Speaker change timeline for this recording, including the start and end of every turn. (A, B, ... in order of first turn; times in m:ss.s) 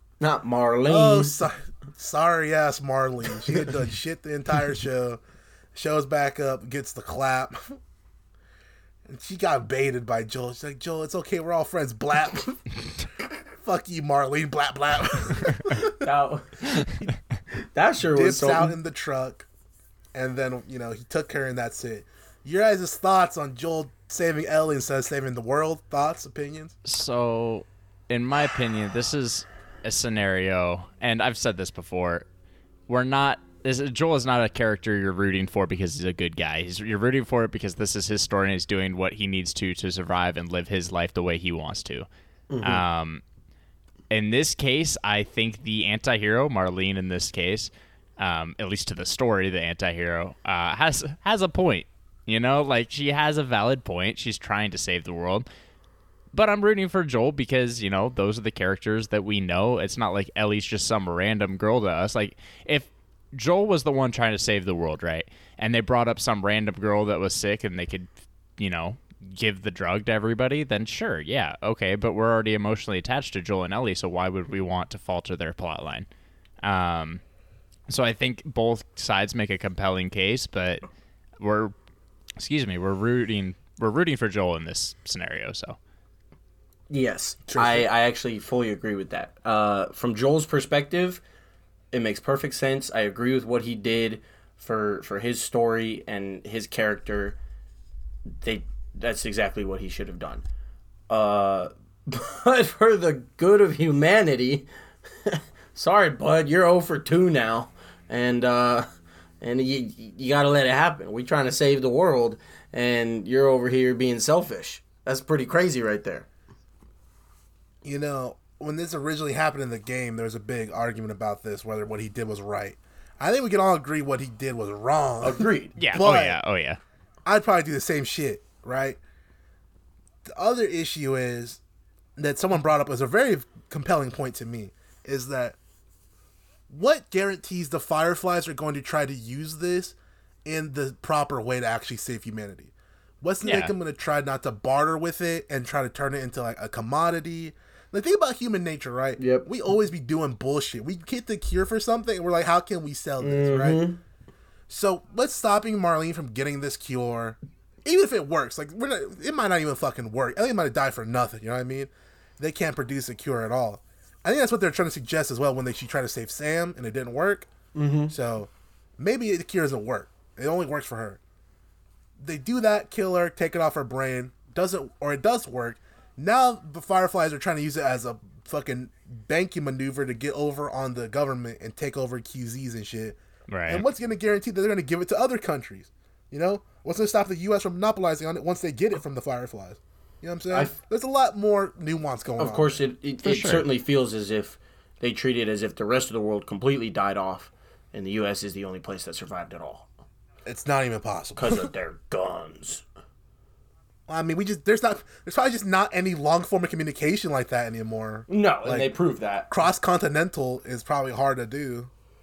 0:00.2-0:01.4 A
0:00.9-0:05.2 B
0:05.7-0:07.8 B
0:09.1-0:12.7 B
0:13.5-0:16.0 B
0:15.8-0:16.8 A
0:17.7-0:18.8 A
0:18.1-0:19.5 B
0:20.1-0:26.8 B
0:26.8-0:32.2 C
0:32.9-0:42.1 C
0:42.5-0:42.8 A
0:42.6-0:43.2 C
0:44.1-0:55.4 C
0:56.3-1:16.1 C
1:16.6-1:17.2 C
1:17.9-1:20.8 C
1:21.4-1:21.7 C
1:22.4-1:25.8 C
1:26.9-1:31.2 A
1:27.5-1:27.9 B
1:31.9-1:37.4 A
1:38.4-1:40.4 A
1:41.1-1:44.7 A
1:45.2-1:48.9 A
1:49.4-1:56.3 A
1:57.8-2:06.4 B
2:05.2-2:05.8 A
2:05.8-2:06.8 C
2:07.2-2:09.0 B
2:10.3-2:11.6 B
2:12.2-2:15.6 B
2:16.7-2:33.8 B
2:23.4-2:23.7 C
2:29.2-2:29.5 A
2:33.2-2:34.0 A
2:34.7-2:47.5 B
2:47.7-2:48.1 A
2:48.1-2:51.2 B
2:52.2-3:12.8 B
3:03.5-3:03.8 C
3:12.4-3:19.9 A
3:13.2-3:13.7 C
3:20.4-3:21.7 B
3:21.4-3:22.8 A
3:24.1-3:28.9 B
3:28.3-3:29.5 A
3:29.5-3:31.9 B